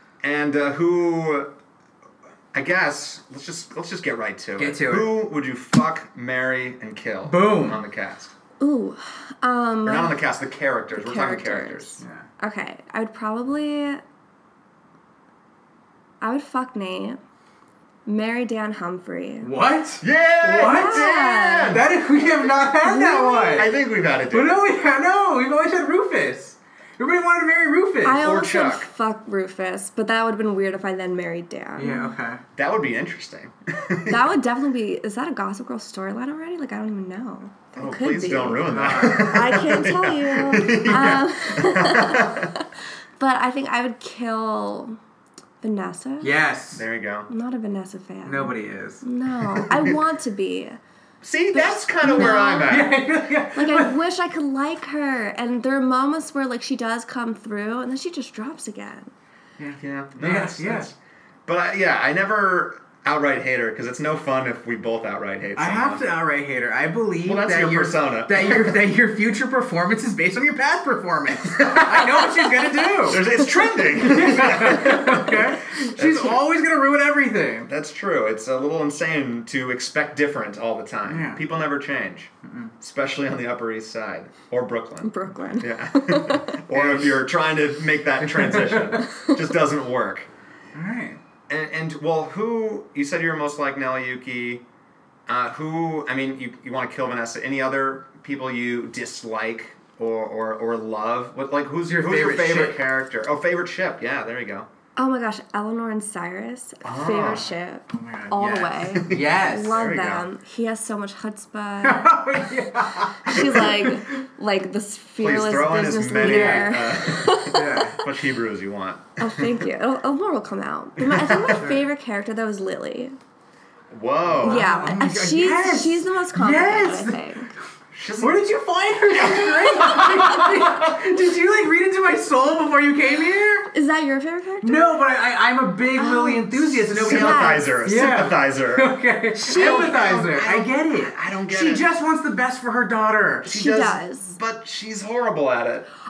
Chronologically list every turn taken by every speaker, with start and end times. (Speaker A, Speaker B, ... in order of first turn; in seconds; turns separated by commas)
Speaker A: 0.2-1.5, Speaker A: 2.5-8.3, Speaker B: 4.6-5.2, Speaker B: 7.2-7.8, Speaker C: 8.6-10.2, Speaker A: 9.9-12.0, Speaker C: 10.9-14.0, Speaker B: 12.0-12.3, Speaker C: 16.2-17.2, Speaker C: 18.1-19.5, Speaker B: 19.4-21.1, Speaker A: 20.0-21.9, Speaker C: 20.6-21.8, Speaker B: 21.7-23.7, Speaker C: 22.8-23.7, Speaker A: 23.6-24.6, Speaker B: 24.3-28.2, Speaker C: 28.0-32.2, Speaker A: 28.1-28.9, Speaker B: 31.8-32.4, Speaker A: 32.6-34.3, Speaker C: 34.1-42.7, Speaker A: 37.8-42.5, Speaker B: 38.7-39.4, Speaker C: 43.2-45.0, Speaker C: 45.6-46.3, Speaker B: 46.2-46.9, Speaker A: 46.7-47.3, Speaker C: 47.3-50.8, Speaker B: 48.2-49.0, Speaker A: 49.5-50.0, Speaker A: 51.2-52.9, Speaker C: 51.5-52.9, Speaker B: 52.0-54.0, Speaker C: 53.5-59.1, Speaker B: 59.6-60.9, Speaker A: 59.8-60.9, Speaker A: 61.5-66.0, Speaker B: 65.5-77.7, Speaker A: 67.2-68.8, Speaker A: 71.5-76.4, Speaker A: 77.7-90.3, Speaker B: 81.1-81.4, Speaker B: 82.4-82.7, Speaker C: 85.0-86.6, Speaker B: 86.7-87.2, Speaker B: 88.3-89.0, Speaker C: 89.1-89.3, Speaker B: 90.8-91.2, Speaker A: 91.5-94.6, Speaker A: 95.3-104.7, Speaker B: 101.9-102.8, Speaker C: 105.0-112.2, Speaker A: 106.8-107.5, Speaker B: 107.9-109.9, Speaker A: 109.0-110.3, Speaker B: 111.8-114.2, Speaker C: 113.2-118.0, Speaker A: 115.2-119.6, Speaker B: 116.2-116.8, Speaker B: 117.5-118.0, Speaker C: 119.2-123.2, Speaker A: 121.1-121.6, Speaker B: 121.5-121.8, Speaker A: 123.9-124.7, Speaker B: 124.3-127.3, Speaker C: 124.4-127.5, Speaker A: 127.9-128.4, Speaker B: 128.2-133.7, Speaker A: 129.1-130.0, Speaker C: 129.2-130.8, Speaker C: 133.7-134.9, Speaker B: 134.6-143.5, Speaker C: 135.9-137.7, Speaker A: 136.8-141.8, Speaker C: 139.5-139.9, Speaker C: 143.4-144.3, Speaker A: 143.4-145.9